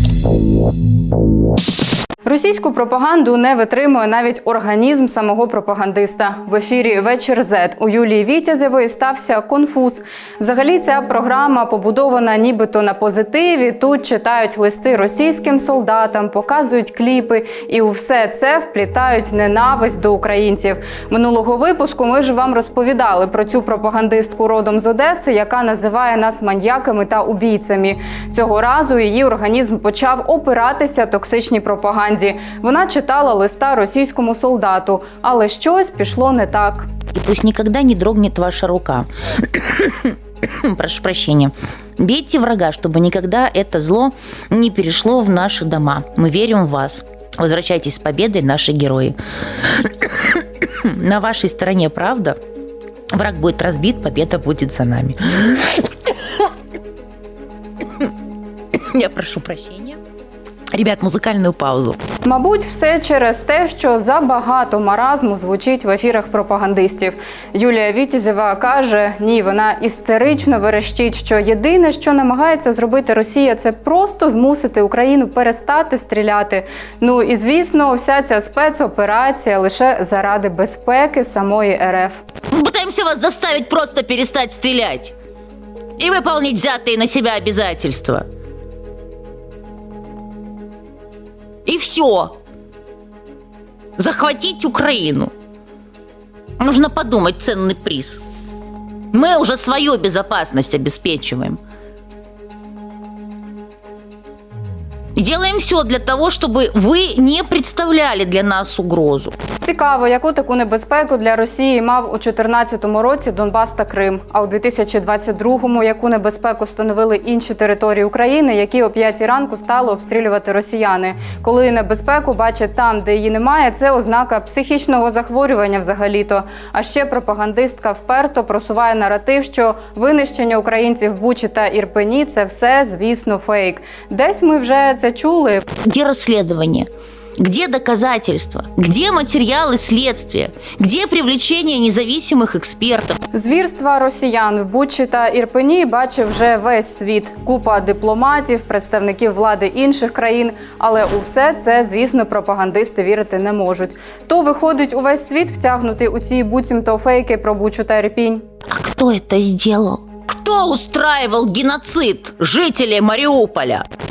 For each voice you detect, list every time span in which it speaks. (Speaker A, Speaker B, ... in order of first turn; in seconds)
Speaker A: 2.2-36.9, 62.2-82.2, 109.6-135.7, 143.3-158.4
Speaker B: 37.1-39.1, 40.6-49.2, 50.9-52.4, 53.1-55.6, 58.9-60.0, 60.8-62.0, 82.5-85.1, 86.0-88.2, 91.7-92.3, 94.0-95.3, 96.6-98.2, 99.1-101.6, 105.2-109.3, 135.8-136.9, 137.4-143.2, 158.7-163.8